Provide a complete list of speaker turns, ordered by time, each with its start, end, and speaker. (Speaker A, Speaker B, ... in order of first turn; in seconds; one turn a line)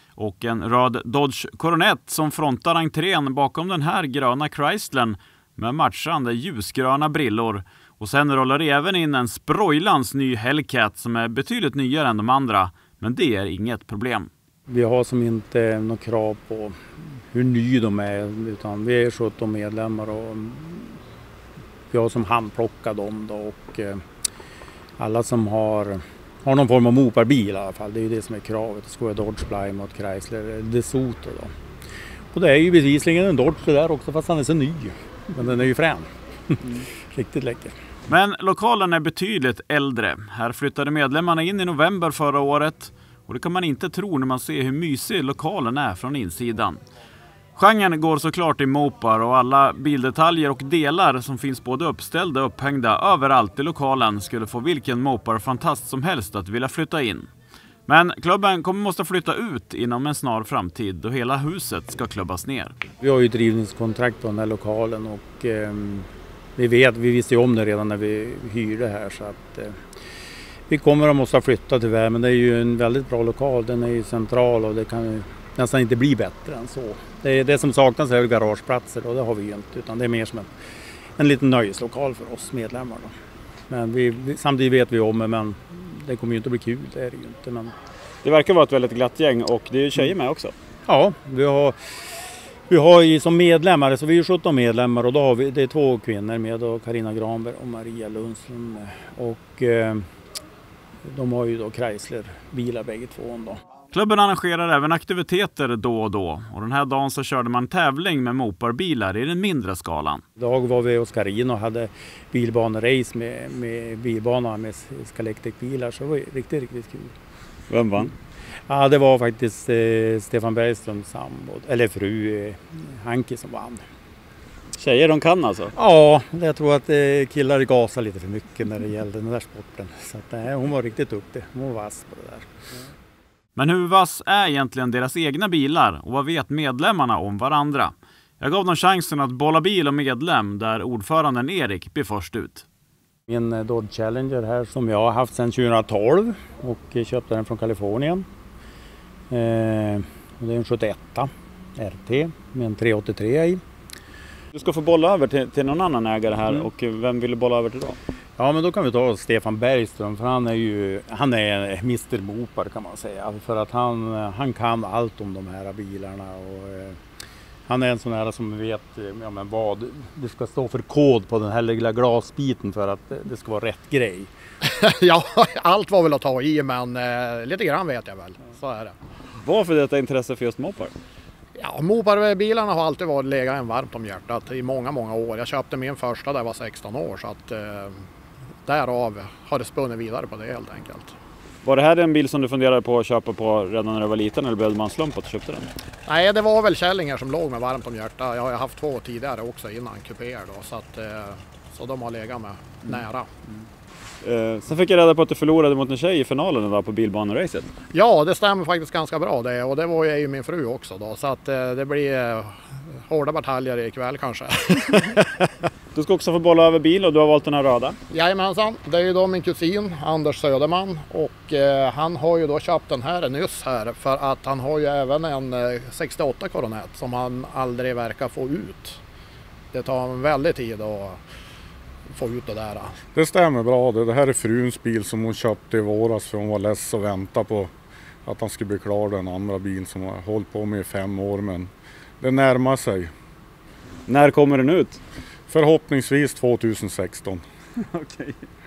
Speaker A: 0.2-14.3
Speaker B: 14.7-16.8
Speaker B: 17.3-21.0
Speaker B: 21.9-24.0
Speaker B: 25.0-31.5
Speaker B: 32.3-37.7
Speaker A: 38.1-46.8
Speaker A: 47.5-57.3
Speaker A: 57.9-62.7
Speaker B: 63.0-69.8
Speaker B: 70.7-80.5
Speaker B: 81.2-83.1
Speaker B: 83.7-87.7
Speaker A: 88.2-90.5
Speaker B: 90.8-91.8
Speaker B: 92.7-100.0
Speaker B: 101.0-103.6
Speaker A: 103.9-110.2
Speaker B: 110.4-117.1
Speaker A: 117.7-118.1
Speaker B: 118.7-123.8
Speaker A: 124.8-125.7
Speaker B: 125.7-132.5
Speaker A: 133.6-142.6
Speaker B: 143.3-148.2
Speaker B: 149.3-153.6
Speaker A: 154.5-158.0
Speaker B: 158.4-167.0
Speaker B: 167.7-174.3
Speaker C: 174.7-178.9
Speaker A: 179.4-180.9
Speaker C: 181.6-188.0
Speaker C: 188.6-191.1
Speaker A: 191.6-195.7
Speaker C: 196.1-203.3
Speaker A: 204.2-207.7
Speaker C: 207.9-215.5
Speaker A: 215.9-217.9
Speaker C: 218.1-229.0
Speaker C: 229.7-231.2
Speaker C: 232.1-233.0
Speaker D: 233.1-237.7
Speaker D: 238.2-243.1
Speaker A: 244.1-245.0
Speaker D: 245.5-247.4
Speaker A: 247.8-248.4